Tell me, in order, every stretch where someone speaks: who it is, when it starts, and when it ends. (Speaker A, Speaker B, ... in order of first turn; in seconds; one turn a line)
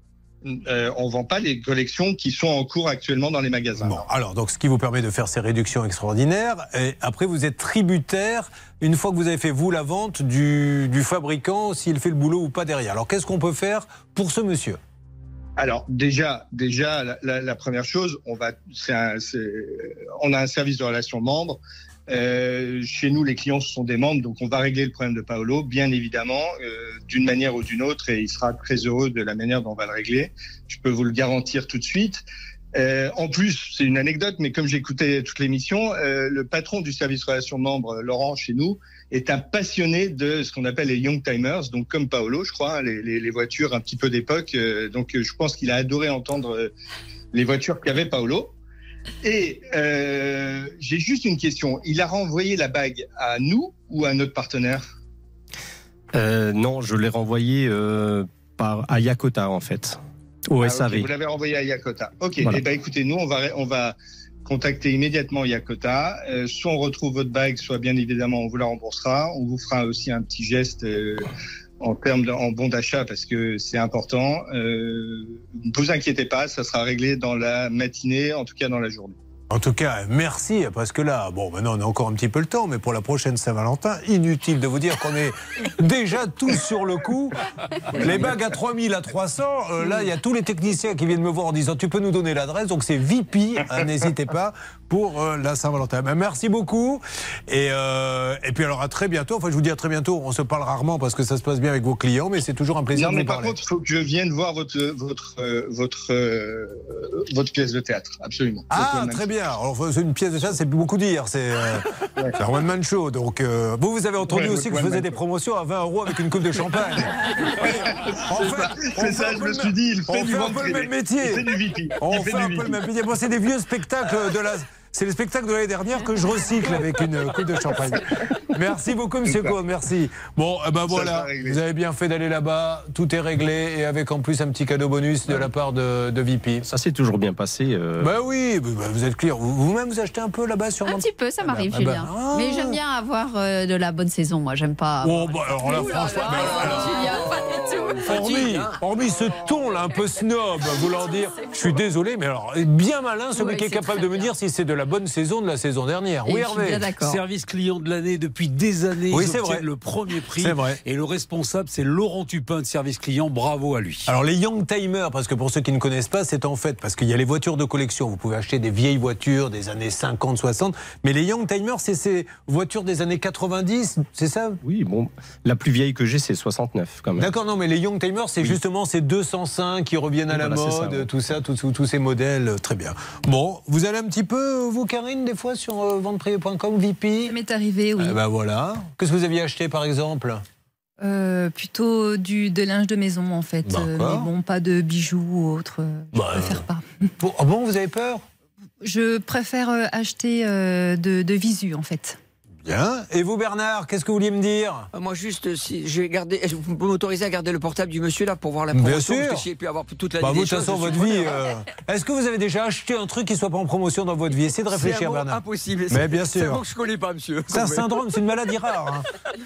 Speaker A: 0.5-4.0
Speaker B: 3.8-14.8
Speaker A: 15.6-32.2
Speaker A: 32.8-46.7
Speaker A: 47.3-48.5
Speaker A: 49.2-54.8
Speaker C: 56.1-61.1
Speaker A: 60.7-71.3
Speaker A: 71.8-79.1
Speaker B: 79.5-87.3
Speaker B: 87.9-103.6
Speaker A: 102.9-106.8
Speaker A: 107.3-109.2
Speaker B: 108.7-111.8
Speaker B: 112.4-117.2
Speaker A: 114.3-115.1
Speaker B: 118.3-136.7
Speaker A: 118.4-122.6
Speaker A: 130.9-131.6
Speaker C: 136.7-138.1
Speaker B: 138.0-142.8
Speaker D: 140.8-148.7
Speaker B: 145.0-147.2
Speaker B: 148.0-156.9
Speaker D: 153.3-154.3
Speaker D: 156.2-157.2
Speaker E: 157.0-164.1
Speaker B: 159.1-159.7
Speaker B: 160.4-160.8
Speaker B: 164.1-174.6
Speaker C: 174.6-177.3
Speaker B: 177.2-187.3
Speaker C: 180.3-181.1
Speaker F: 187.3-188.2
Speaker B: 188.0-190.4
Speaker F: 191.0-196.8
Speaker B: 193.7-194.3
Speaker B: 196.1-196.6
Speaker B: 197.2-198.2
Speaker F: 198.8-202.2
Speaker B: 202.6-204.9
Speaker B: 208.7-209.4
Speaker B: 210.2-216.6
Speaker G: 214.8-217.9
Speaker B: 217.5-219.0